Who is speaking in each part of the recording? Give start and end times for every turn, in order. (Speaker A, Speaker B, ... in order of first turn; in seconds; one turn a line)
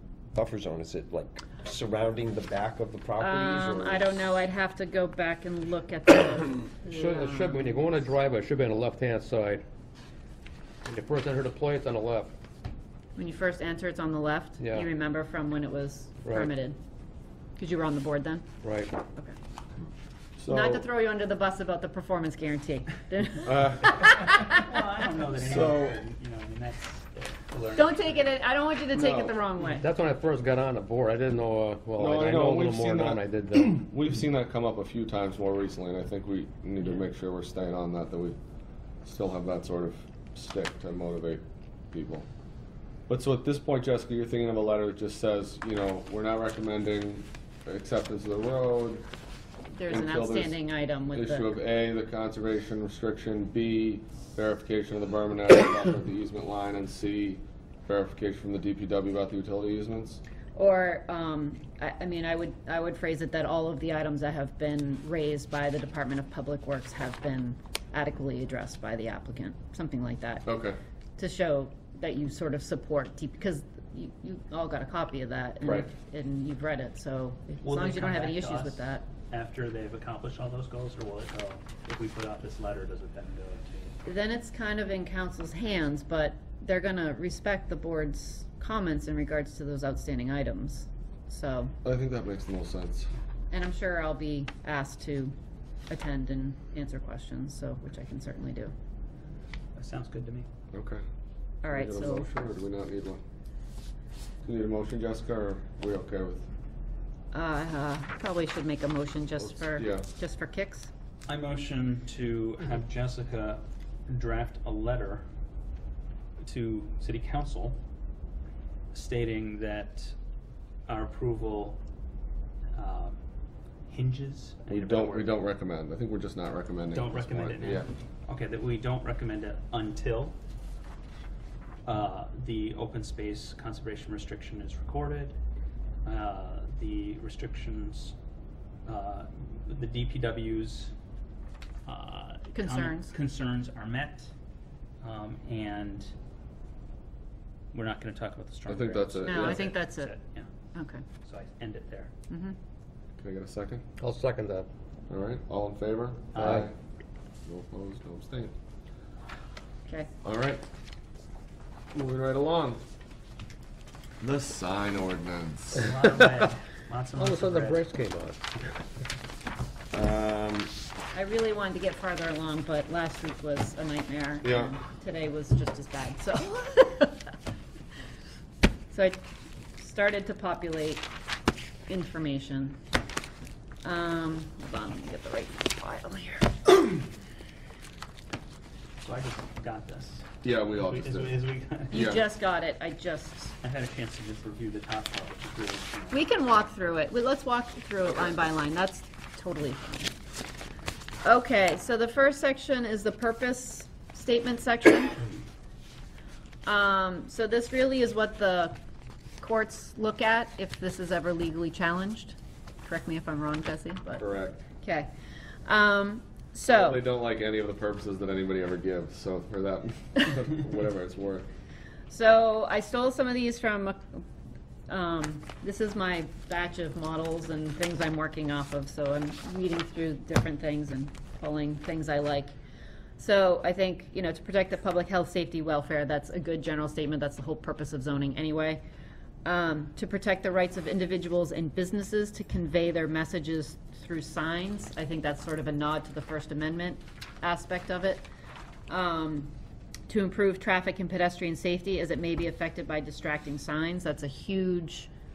Speaker A: 0.3-4.2
Speaker B: 3.2-8.0
Speaker C: 6.8-9.6
Speaker C: 10.9-12.3
Speaker B: 13.2-16.8
Speaker C: 14.6-14.9
Speaker C: 16.2-16.5
Speaker B: 17.6-18.5
Speaker C: 18.6-19.0
Speaker D: 20.4-20.9
Speaker B: 20.5-24.6
Speaker D: 23.4-24.1
Speaker E: 24.2-28.1
Speaker D: 25.4-26.0
Speaker B: 27.8-29.9
Speaker C: 29.7-33.8
Speaker D: 32.0-38.4
Speaker D: 39.0-42.3
Speaker D: 43.1-49.0
Speaker B: 49.7-51.5
Speaker D: 49.9-50.6
Speaker D: 51.1-60.2
Speaker B: 60.6-70.5
Speaker D: 70.5-70.8
Speaker B: 71.2-79.1
Speaker E: 77.6-84.0
Speaker B: 84.0-91.8
Speaker D: 91.8-93.1
Speaker B: 93.5-95.3
Speaker B: 95.9-98.7
Speaker E: 99.8-100.5
Speaker D: 100.7-101.0
Speaker B: 101.6-102.3
Speaker D: 101.7-103.2
Speaker D: 104.4-106.5
Speaker B: 107.3-110.9
Speaker D: 109.5-110.1
Speaker E: 111.3-115.2
Speaker E: 116.4-117.8
Speaker E: 118.9-120.2
Speaker E: 120.9-121.8
Speaker E: 122.7-123.2
Speaker E: 123.9-125.4
Speaker D: 124.7-127.9
Speaker E: 126.9-130.4
Speaker E: 131.8-135.4
Speaker E: 136.0-138.2
Speaker E: 138.8-140.9
Speaker E: 141.8-144.3
Speaker B: 142.5-143.1
Speaker E: 145.0-146.1
Speaker E: 147.7-150.5
Speaker D: 148.7-149.7
Speaker B: 149.2-150.1
Speaker B: 150.7-151.1
Speaker E: 151.2-152.1
Speaker B: 152.3-152.6
Speaker D: 153.2-153.8
Speaker C: 154.0-154.7
Speaker D: 155.1-156.7
Speaker E: 156.3-156.7
Speaker C: 156.4-156.7
Speaker D: 157.4-158.5
Speaker B: 159.9-160.1
Speaker D: 160.2-160.6
Speaker D: 161.9-162.8
Speaker D: 164.2-165.9
Speaker E: 165.8-167.8
Speaker C: 167.2-168.4
Speaker D: 169.9-170.7
Speaker B: 171.1-177.2
Speaker D: 174.4-174.8
Speaker B: 178.9-179.3
Speaker B: 179.8-181.1
Speaker B: 181.9-182.8
Speaker B: 183.8-186.8
Speaker E: 189.0-192.0
Speaker D: 190.4-191.3
Speaker D: 191.9-192.3
Speaker B: 191.9-193.6
Speaker E: 193.6-196.7
Speaker B: 196.1-200.1
Speaker B: 201.2-205.3
Speaker B: 206.7-208.8
Speaker B: 209.4-214.2
Speaker D: 214.2-214.6
Speaker B: 214.8-215.1
Speaker B: 215.7-217.0
Speaker D: 216.7-221.5
Speaker B: 222.1-224.2
Speaker B: 224.9-232.6
Speaker B: 233.2-238.8
Speaker B: 239.4-248.2
Speaker B: 248.9-249.5
Speaker B: 250.1-255.1